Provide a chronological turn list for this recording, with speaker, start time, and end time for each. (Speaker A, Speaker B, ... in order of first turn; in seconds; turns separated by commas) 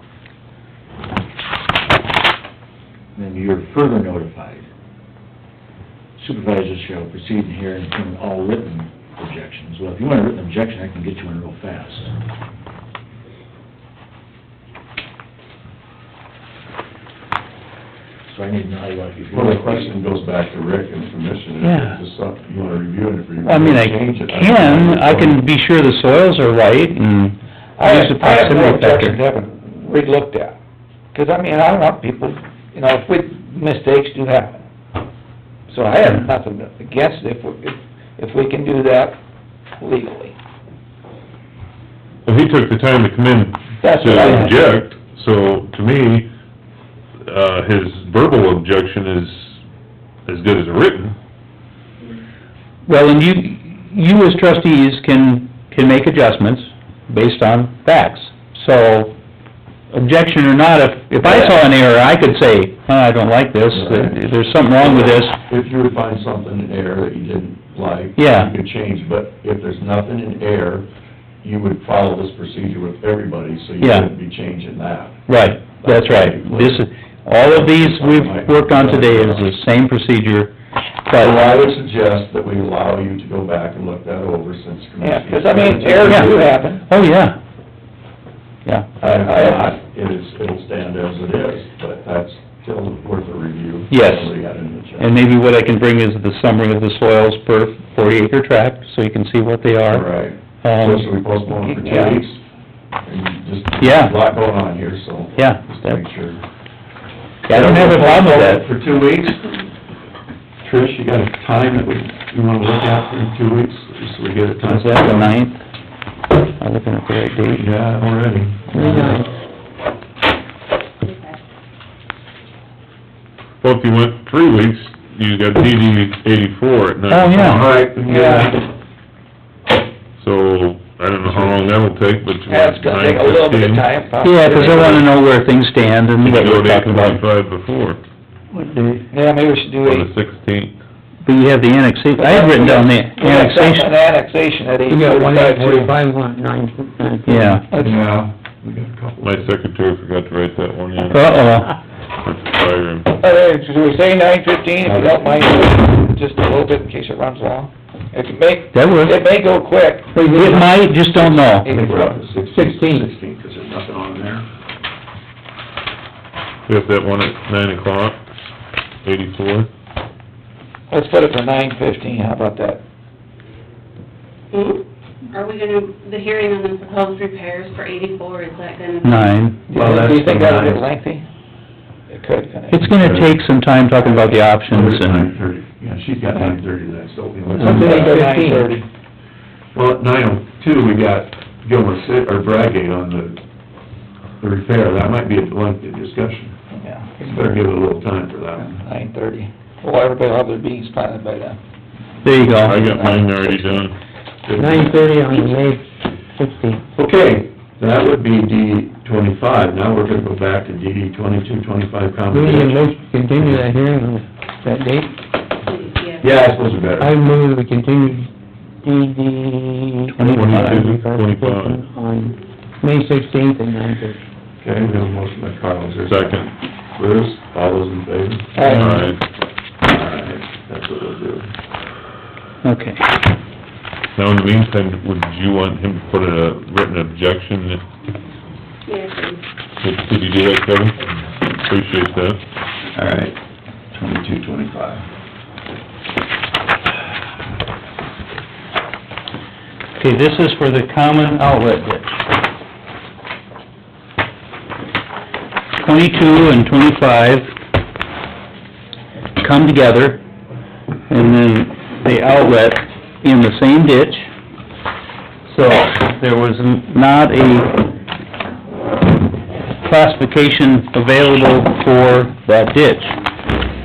Speaker A: 3.2-4.6, Speaker A: 6.2-12.1, Speaker A: 18.3-19.9, Speaker B: 19.3-25.4, Speaker C: 21.6-22.0, Speaker C: 23.4-29.2, Speaker D: 27.8-30.6, Speaker D: 31.1-34.6, Speaker D: 35.7-39.2, Speaker D: 39.8-40.3, Speaker E: 42.2-46.3, Speaker D: 43.8-44.6, Speaker C: 44.3-44.5, Speaker E: 47.3-49.6, Speaker E: 50.2-51.2, Speaker C: 52.9-59.1, Speaker C: 59.9-65.4, Speaker B: 63.7-64.2, Speaker B: 64.8-70.9, Speaker C: 68.2-68.5, Speaker B: 71.4-75.2, Speaker C: 73.8-74.1, Speaker C: 75.3-80.5, Speaker B: 75.8-76.8, Speaker B: 77.4-79.5, Speaker C: 81.1-81.4, Speaker B: 81.2-86.5, Speaker D: 85.0-86.9, Speaker C: 86.0-86.3, Speaker C: 86.9-87.4, Speaker C: 88.7-88.9, Speaker B: 89.0-95.1, Speaker D: 89.0-89.7, Speaker C: 93.9-94.3, Speaker C: 95.0-100.1, Speaker B: 99.9-102.4, Speaker C: 100.6-101.1, Speaker D: 101.6-102.2, Speaker B: 103.0-106.4, Speaker C: 103.8-104.2, Speaker C: 105.4-106.0, Speaker C: 107.5-108.7, Speaker B: 107.5-109.7, Speaker B: 110.6-115.3, Speaker C: 114.6-115.6, Speaker C: 116.6-117.7, Speaker B: 117.6-119.2, Speaker F: 118.7-119.3, Speaker E: 123.6-127.9, Speaker C: 127.1-127.7, Speaker B: 127.4-128.6, Speaker D: 128.1-128.6, Speaker E: 130.2-133.9, Speaker B: 131.2-131.5, Speaker D: 132.5-135.0, Speaker C: 134.2-137.2, Speaker E: 134.5-135.0, Speaker E: 136.2-138.0, Speaker F: 138.5-139.1, Speaker D: 139.1-140.1, Speaker E: 139.8-140.8, Speaker C: 141.2-143.9, Speaker D: 142.2-146.0, Speaker F: 144.9-147.6, Speaker C: 147.3-147.6, Speaker D: 147.7-148.1, Speaker B: 147.8-149.6, Speaker E: 149.2-151.2, Speaker C: 151.1-151.8, Speaker E: 152.2-153.1, Speaker D: 153.2-160.6, Speaker B: 154.8-155.9, Speaker C: 158.7-159.2, Speaker C: 160.1-161.7, Speaker F: 160.2-160.7, Speaker B: 161.7-164.5, Speaker F: 161.7-163.1, Speaker E: 166.7-168.2, Speaker E: 169.0-169.7, Speaker D: 170.9-172.8, Speaker G: 174.5-179.3, Speaker C: 179.0-180.8, Speaker D: 179.7-181.3, Speaker D: 182.1-182.9, Speaker C: 182.7-185.3, Speaker B: 183.0-183.3, Speaker B: 184.7-188.4, Speaker F: 187.5-188.7, Speaker D: 187.6-188.9, Speaker B: 189.7-193.4, Speaker B: 194.4-196.6, Speaker D: 196.7-197.7, Speaker B: 197.2-198.8, Speaker D: 198.6-201.6, Speaker C: 202.2-203.2, Speaker E: 202.5-204.0, Speaker B: 204.5-205.2, Speaker F: 204.5-205.9, Speaker F: 206.4-206.8, Speaker B: 206.9-212.9, Speaker F: 212.3-215.2, Speaker G: 215.7-216.4, Speaker B: 216.2-217.1, Speaker F: 217.0-218.3, Speaker F: 218.8-224.2, Speaker C: 220.1-220.8, Speaker E: 220.2-221.8, Speaker B: 224.6-229.0, Speaker E: 226.1-226.5, Speaker D: 228.6-229.1, Speaker E: 228.7-229.2, Speaker B: 229.8-231.5, Speaker C: 232.6-233.0, Speaker E: 234.2-237.8, Speaker G: 238.9-239.4, Speaker E: 239.8-241.0, Speaker E: 241.6-242.4, Speaker B: 242.9-243.4, Speaker B: 243.9-245.1, Speaker C: 250.0-252.3, Speaker C: 255.8-257.5, Speaker C: 259.4-260.2, Speaker C: 261.1-264.3, Speaker C: 265.5-267.8, Speaker C: 269.8-273.2